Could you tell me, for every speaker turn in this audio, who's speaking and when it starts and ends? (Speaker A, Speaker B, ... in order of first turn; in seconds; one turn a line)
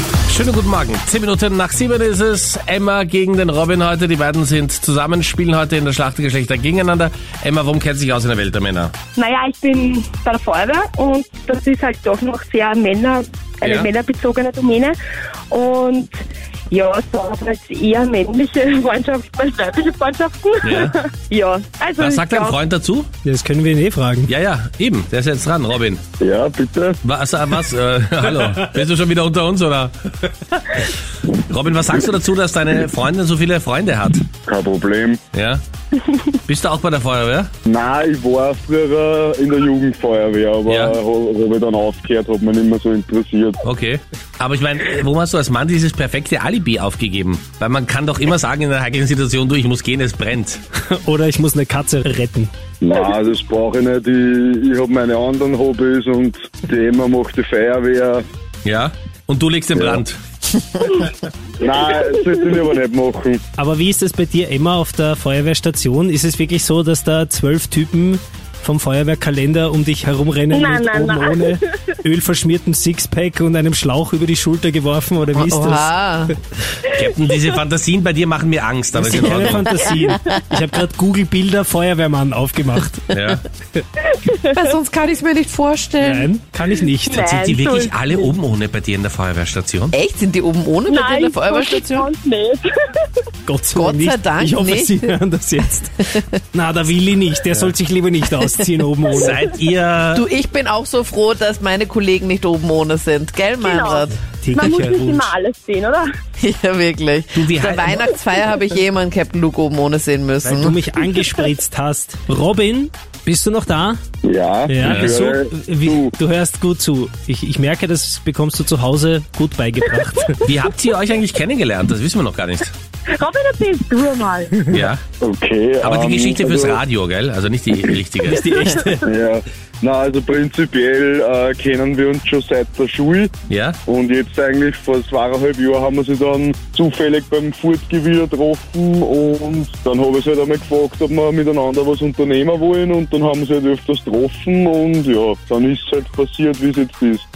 Speaker A: 0.3-8.9
Speaker B: 9.2-15.0
Speaker A: 13.6-13.9
Speaker B: 15.5-16.1
Speaker B: 16.7-22.5
Speaker A: 20.6-21.0
Speaker A: 22.0-23.1
Speaker C: 23.2-24.3
Speaker A: 24.3-26.0
Speaker D: 26.2-27.0
Speaker A: 27.0-30.8
Speaker A: 31.3-34.2
Speaker D: 34.5-35.2
Speaker A: 35.3-35.6
Speaker A: 36.4-37.5
Speaker D: 37.7-43.6
Speaker A: 40.7-41.0
Speaker A: 43.6-50.6
Speaker C: 50.9-52.5
Speaker D: 52.8-58.2
Speaker A: 58.6-60.2
Speaker D: 59.8-60.0
Speaker D: 61.6-63.4
Speaker C: 63.6-76.3
Speaker B: 70.5-71.7
Speaker E: 75.3-76.3
Speaker A: 76.9-79.8
Speaker C: 78.9-83.1
Speaker E: 79.2-80.4
Speaker A: 83.1-83.4
Speaker E: 84.5-86.3
Speaker C: 86.0-87.3
Speaker A: 87.1-90.0
Speaker B: 87.1-87.9
Speaker E: 89.9-92.1
Speaker B: 90.9-92.6
Speaker C: 93.5-96.0
Speaker E: 93.7-96.3
Speaker C: 96.5-99.6
Speaker E: 98.5-99.2
Speaker A: 99.2-100.2
Speaker E: 100.1-104.7
Speaker B: 103.7-104.0
Speaker C: 104.2-105.3
Speaker B: 104.6-106.0
Speaker E: 106.4-110.8
Speaker A: 107.3-108.0
Speaker C: 110.4-114.0
Speaker D: 114.2-116.1
Speaker C: 114.7-120.5
Speaker A: 114.8-115.1
Speaker A: 120.4-122.7
Speaker B: 123.1-124.7
Speaker A: 124.7-125.0
Speaker D: 125.2-126.8
Speaker A: 125.8-128.5
Speaker C: 128.3-129.1
Speaker B: 128.5-128.8
Speaker D: 129.0-133.3
Speaker A: 133.5-133.8
Speaker D: 133.9-147.3